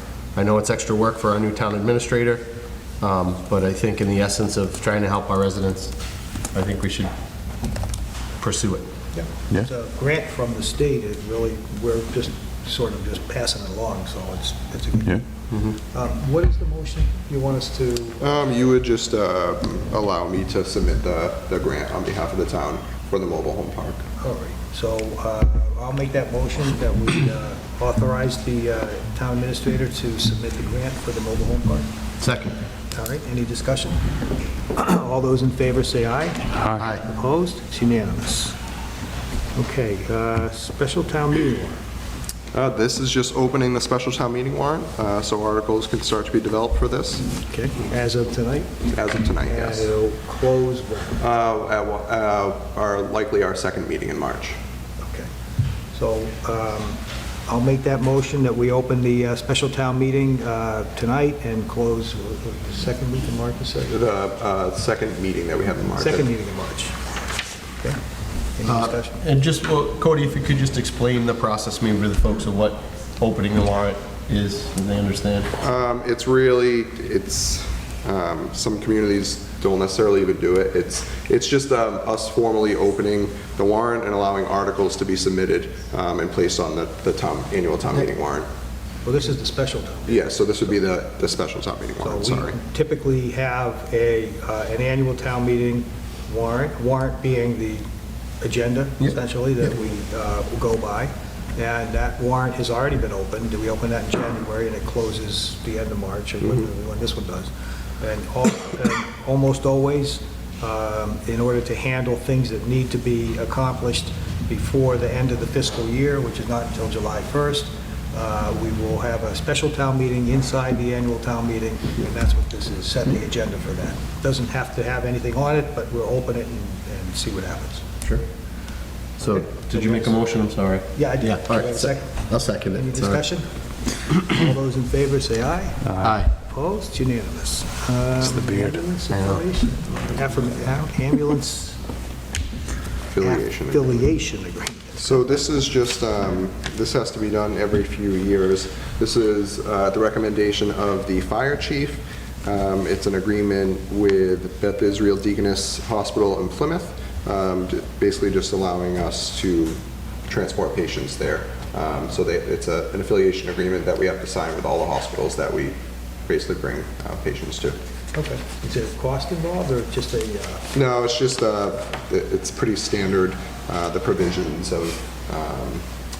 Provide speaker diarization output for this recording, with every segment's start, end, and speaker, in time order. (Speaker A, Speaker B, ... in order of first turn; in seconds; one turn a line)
Speaker A: 0.3-2.4
Speaker A: 3.0-5.9
Speaker A: 6.5-7.1
Speaker A: 8.4-8.8
Speaker B: 9.1-15.2
Speaker B: 15.8-18.6
Speaker C: 18.2-24.0
Speaker B: 24.2-31.9
Speaker A: 32.2-32.5
Speaker B: 32.9-34.0
Speaker B: 34.7-38.5
Speaker A: 36.7-37.0
Speaker B: 39.5-41.8
Speaker C: 42.5-47.2
Speaker B: 47.4-48.7
Speaker C: 48.9-49.9
Speaker B: 49.4-51.2
Speaker C: 51.2-54.6
Speaker B: 55.0-55.3
Speaker B: 55.9-63.9
Speaker C: 63.9-66.2
Speaker B: 66.0-67.0
Speaker B: 68.5-69.2
Speaker A: 68.7-75.5
Speaker C: 75.6-88.5
Speaker B: 89.0-90.3
Speaker C: 90.1-92.5
Speaker B: 92.0-97.8
Speaker B: 98.4-127.8
Speaker A: 129.2-133.2
Speaker B: 129.3-130.3
Speaker B: 130.9-133.5
Speaker B: 134.0-141.8
Speaker A: 136.0-136.3
Speaker A: 139.1-139.4
Speaker C: 143.1-144.0
Speaker B: 143.2-145.2
Speaker C: 145.0-167.8
Speaker B: 168.1-170.7
Speaker C: 170.7-175.8